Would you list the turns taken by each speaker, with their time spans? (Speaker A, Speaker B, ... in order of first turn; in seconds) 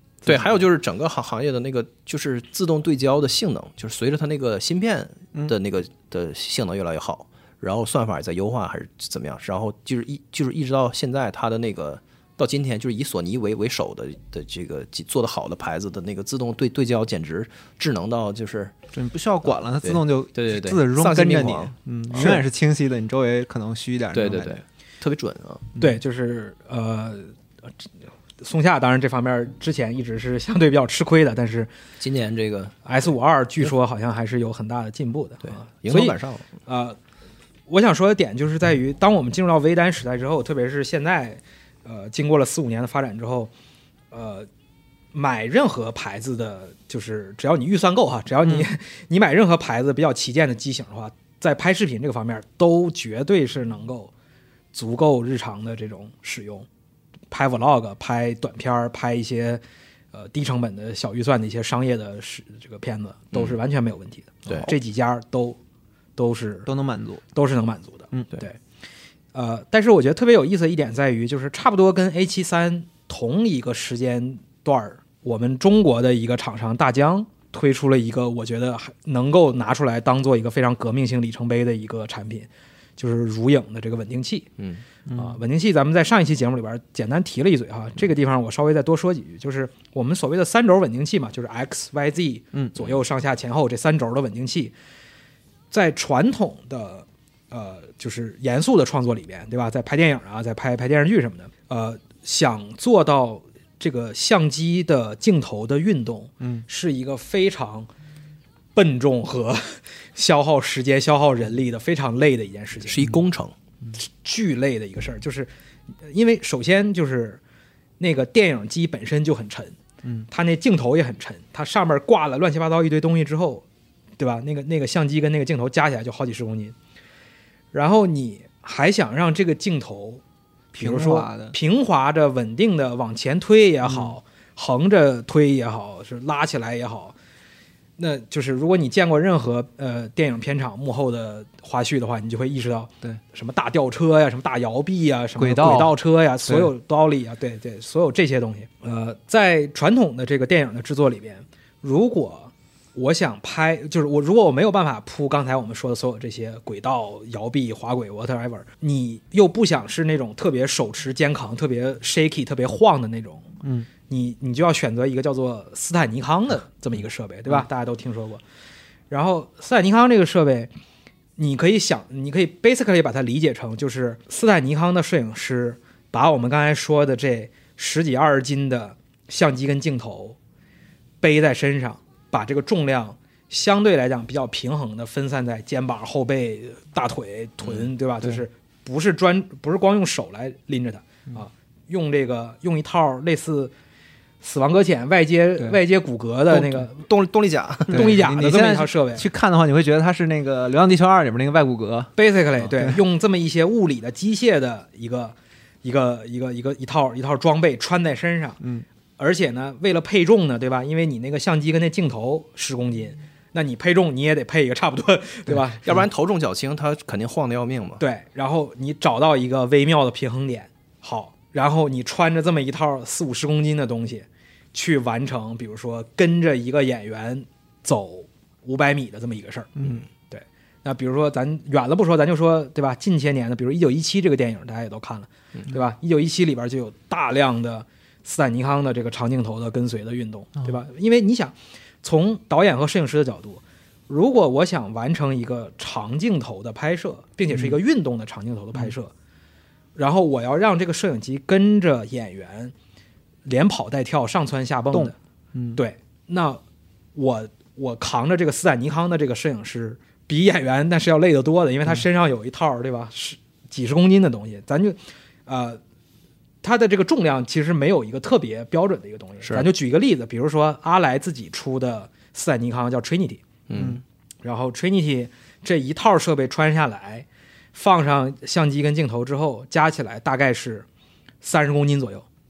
Speaker A: 0.2-0.5, 25.8-27.3, 28.4-31.7, 32.8-37.0, 37.7-43.5, 44.1-44.5, 45.1-54.1, 54.7-56.7, 57.3-59.6, 60.1-65.6, 66.2-66.7, 67.3-68.6, 69.3-84.5, 85.1-94.7, 95.7-107.9, 108.7-113.0, 114.0-115.5, 116.0-117.4, 118.0-119.8, 120.3-123.6, 124.2-126.7, 127.7-130.2, 130.8-137.1, 138.0-163.5, 164.1-168.4, 169.1-170.7, 171.4-180.4, 181.2-193.7, 194.4-197.0, 197.9-199.3, 202.2-208.6, 209.2-216.0, 218.0-249.1, 249.9-252.7, 253.4-255.1, 255.7-256.6, 257.1-265.8, 266.6-273.4, 274.4-280.9, 281.4-282.2
Speaker B: 0.2-18.7, 19.8-22.4, 24.1-25.6, 32.0-32.7, 35.4-36.5, 64.5-64.7, 84.6-84.8, 112.8-113.5, 187.6-187.9, 196.5-198.2, 215.8-218.0, 269.4-269.7, 273.7-274.0
Speaker C: 18.9-24.6, 66.7-67.2, 85.1-85.4, 130.7-131.6, 133.9-134.1, 145.4-146.7, 197.9-203.0, 208.6-208.8, 247.5-247.8, 254.9-255.8, 273.8-274.0